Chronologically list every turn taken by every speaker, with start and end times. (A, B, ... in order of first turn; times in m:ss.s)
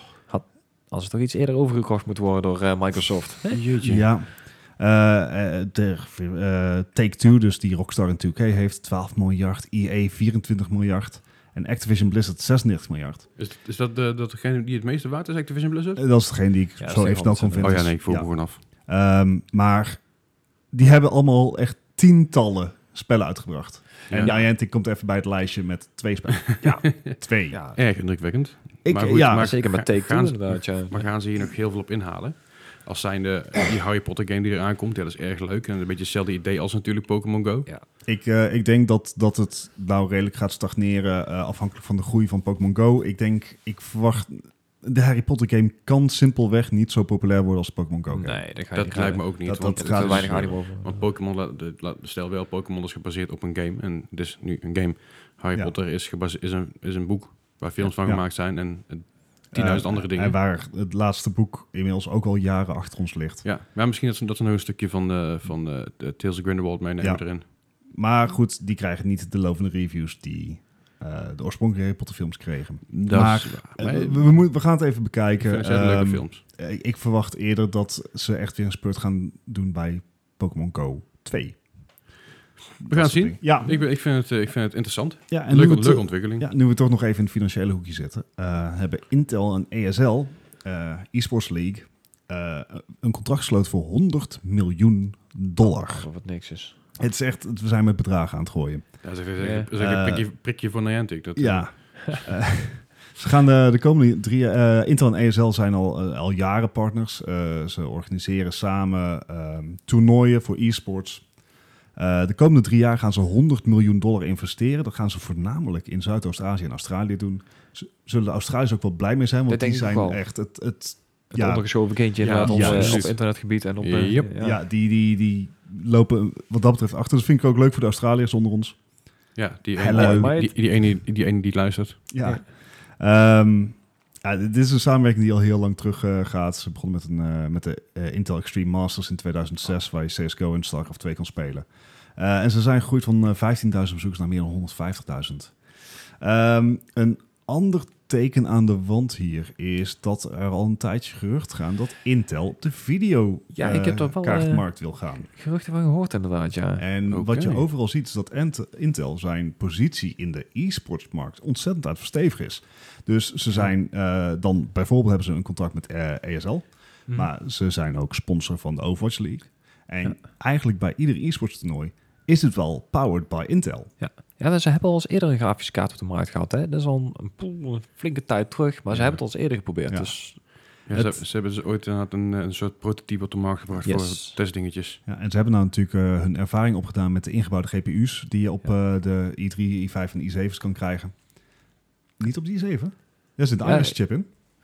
0:00.3-0:03.6 A
0:03.5-0:04.1 B
0:03.8-0:13.3 C
0:13.4-0:16.0 B
0:16.0-0:18.4 C
0:16.8-0:17.8 A
0:17.6-0:18.6 B
0:18.9-0:20.0 C
0:20.7-0:27.6 C
0:24.1-0:24.4 B
0:24.2-0:24.5 A
0:26.4-0:27.2 B
0:27.5-0:27.8 A
0:27.8-0:37.7 B
0:28.8-0:29.5 C
0:29.2-0:31.0 A
0:38.0-0:48.4 C
0:48.1-0:51.0 A
0:48.7-1:00.4 B
0:49.4-0:50.6 C
0:59.5-1:03.4 C
1:03.4-1:07.4 B
1:07.9-1:21.6 C
1:12.9-1:14.4 B
1:15.4-1:16.4 B
1:22.8-1:23.8 C
1:22.8-1:26.5 B
1:25.3-1:36.1 C
1:35.6-1:36.8 A
1:37.0-1:38.8 C
1:39.0-1:42.2 B
1:39.4-1:39.7 A
1:39.8-1:40.3 C
1:41.4-1:51.2 C
1:52.0-2:01.9 C
1:59.5-2:00.2 A
2:01.3-2:04.6 A
2:02.2-2:03.2 B
2:02.4-2:03.1 C
2:03.8-2:04.3 B
2:04.4-2:08.8 C
2:09.4-2:12.0 B
2:09.8-2:10.4 C
2:09.9-2:10.5 A
2:12.1-2:35.3 C
2:33.5-2:34.6 A
2:35.3-2:36.9 A
2:36.8-2:53.9 C
2:37.1-2:37.6 B
2:54.0-3:00.4 A
2:58.9-2:59.2 B
2:59.9-3:00.1 C
3:00.9-3:05.0 B
3:03.8-3:04.4 A
3:05.1-3:11.1 C
3:12.2-3:14.3 C
3:13.6-3:14.0 A